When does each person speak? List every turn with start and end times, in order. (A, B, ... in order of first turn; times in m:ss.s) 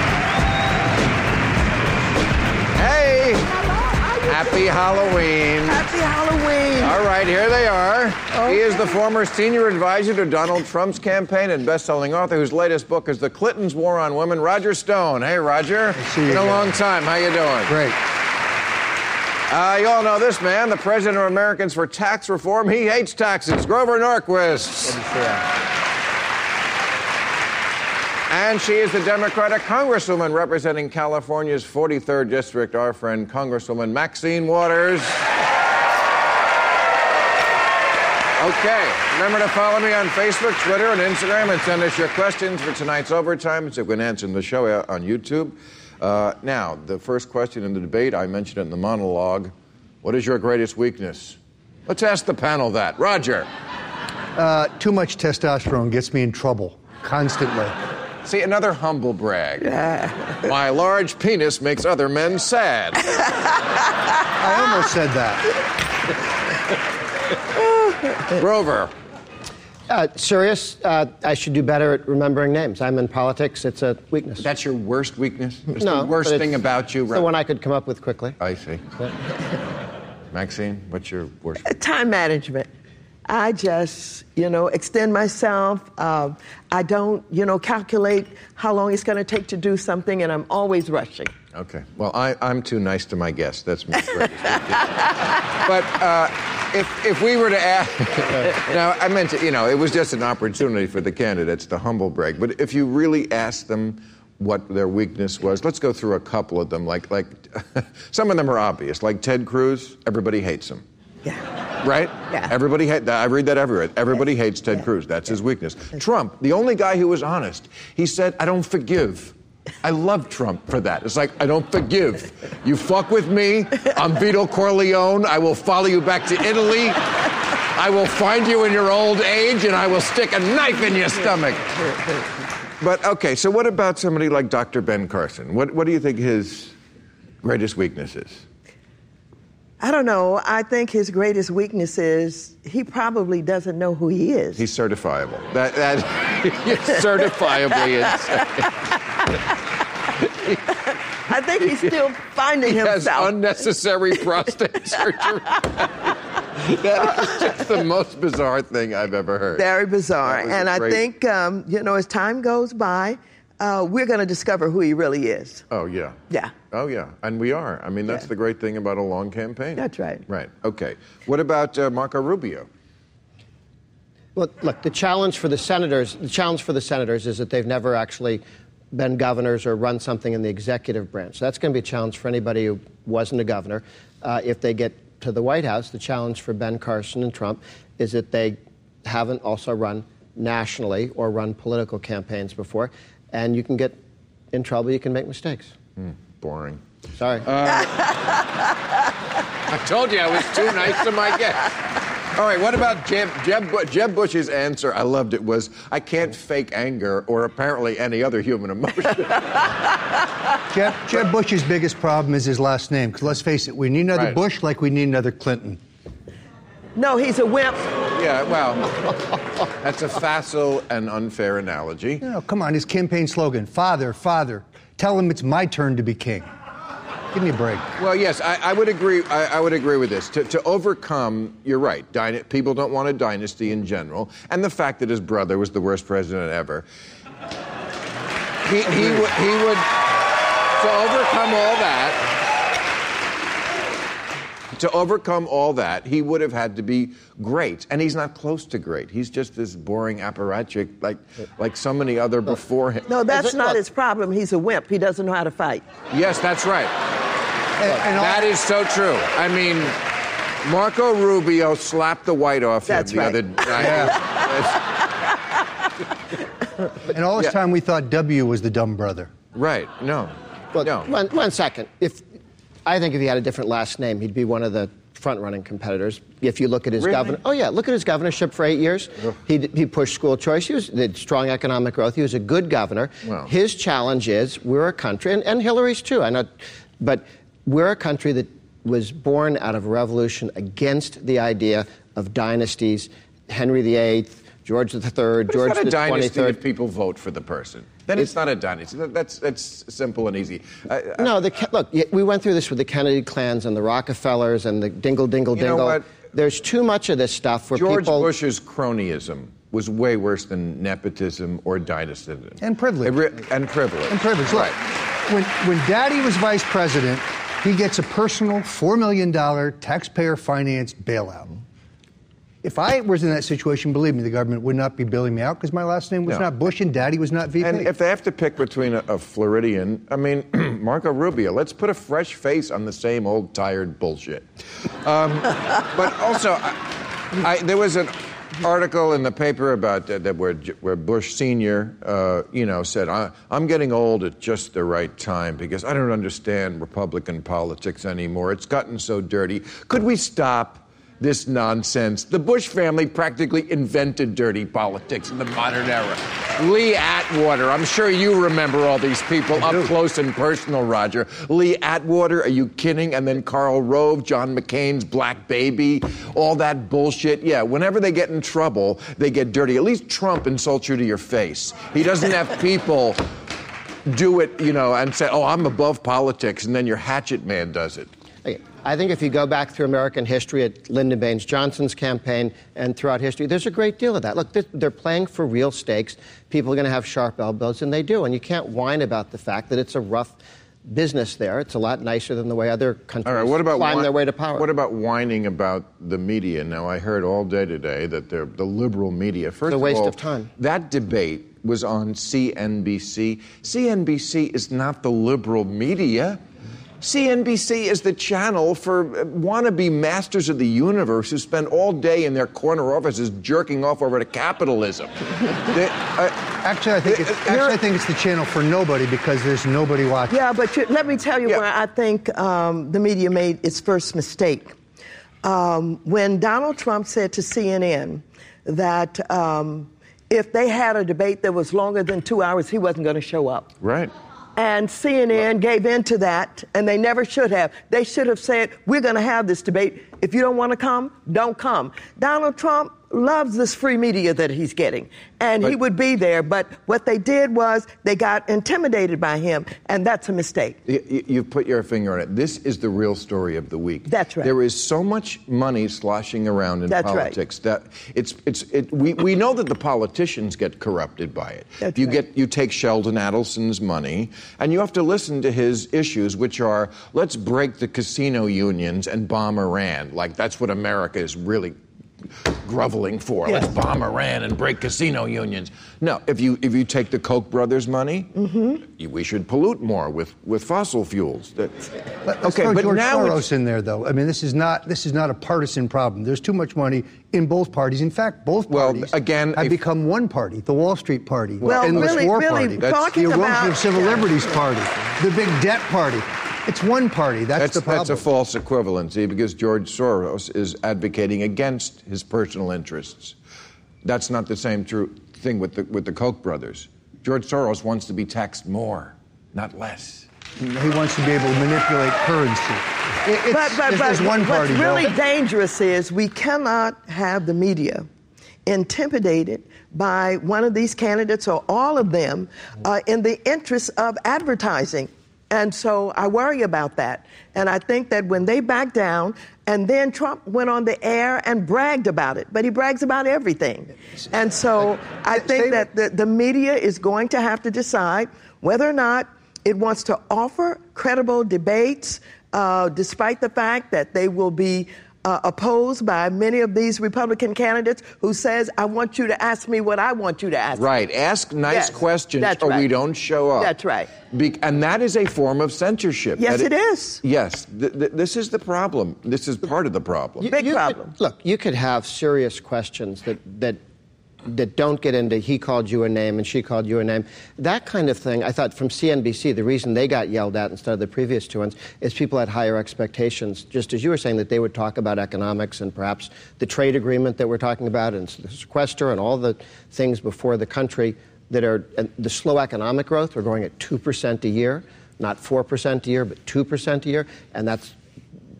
0:02.7-0:03.5 A
0:03.8-0:04.5 B
0:04.2-0:05.8 A
0:05.7-0:06.9 B
0:06.8-0:17.7 A
0:08.3-0:08.9 B
0:16.0-0:16.8 C
0:17.7-0:18.0 C
0:19.5-0:25.1 A
0:28.3-0:35.2 A
0:38.4-0:49.5 A
0:50.0-0:51.4 A
0:51.9-0:53.5 A
0:54.4-0:57.7 C
0:58.2-0:59.8 A
0:59.6-1:00.4 B
1:00.4-1:03.2 A
1:04.4-1:05.4 C
1:08.3-1:08.9 A
1:09.9-1:14.5 D
1:14.4-1:17.3 A
1:15.8-1:16.6 D
1:17.1-1:18.4 D
1:18.4-1:18.8 A
1:20.3-1:21.6 A
1:21.6-1:22.7 B
1:23.3-1:31.3 B
1:31.5-1:50.8 A
1:51.8-2:07.1 A
2:07.7-2:11.7 A
2:12.8-2:16.7 A
2:17.4-2:18.4 A
2:19.8-2:24.6 B
2:24.6-2:28.7 A
2:30.3-2:30.6 A
2:31.3-2:33.4 B
2:31.6-2:31.9 A
2:32.6-2:39.7 A
2:39.6-2:45.6 B
2:40.2-2:41.0 A
2:45.7-2:46.2 A
2:46.7-2:52.7 A
2:49.8-2:50.2 B
2:54.4-3:14.0 D
3:14.5-3:15.7 D
3:16.0-3:16.8 A
3:17.2-3:17.5 D
3:17.4-3:18.0 A
3:19.7-3:21.8 A
3:22.3-3:29.6 A
3:30.7-3:35.8 C
3:37.0-3:37.8 B
3:38.1-3:42.2 A
3:42.2-3:46.5 C
3:47.3-3:47.9 C
3:48.0-3:56.8 A
3:58.6-3:59.9 A
4:00.8-4:02.2 A
4:04.7-4:13.1 A
4:13.1-4:15.8 B
4:13.3-4:13.8 D
4:16.1-4:16.9 A
4:17.8-4:18.5 C
4:18.0-4:20.0 A
4:20.6-4:24.8 A
4:22.9-4:24.2 B
4:23.7-4:24.2 C
4:27.1-4:29.3 C
4:29.5-4:31.1 A
4:30.7-4:32.2 D
4:32.8-4:46.5 D
4:37.0-4:37.4 A
4:47.0-4:56.6 D
4:55.5-5:01.3 A
5:01.2-5:08.3 D
5:05.5-5:06.1 A
5:07.7-5:14.8 A
5:12.6-5:13.2 C
5:14.1-5:14.8 C
5:15.3-5:21.6 C
5:22.6-5:27.9 C
5:27.6-5:34.4 A
5:35.0-6:13.2 A
5:59.6-5:59.9 C
6:14.1-6:18.1 A
6:18.4-6:34.7 D
6:33.2-6:46.4 A
6:39.6-6:40.5 D
6:47.0-6:55.1 A
6:55.7-6:57.8 A
6:56.6-7:00.3 C
7:00.3-7:04.7 B
7:05.4-7:13.7 B
7:13.8-7:14.1 A
7:14.6-7:30.8 B
7:30.8-7:51.8 A
7:34.1-7:34.5 B
7:36.9-7:37.4 B
7:41.8-7:42.2 B
7:52.5-8:01.8 A
7:58.4-7:58.8 B
8:02.2-8:18.2 C
8:02.4-8:03.4 A
8:08.7-8:09.8 A
8:11.6-8:12.2 A
8:11.6-8:14.5 B
8:12.8-8:13.1 A
8:17.6-8:23.4 A
8:24.0-8:30.3 A
8:30.6-8:35.1 C
8:33.5-8:38.1 B
8:38.6-9:10.9 B
8:55.3-8:55.8 C
9:10.7-9:13.7 A
9:11.7-9:12.9 B
9:13.6-9:14.1 B
9:14.3-9:16.7 A
9:16.4-9:17.2 B
9:17.2-9:20.5 A
9:20.4-9:21.1 B
9:20.5-9:23.8 D
9:24.4-9:48.0 D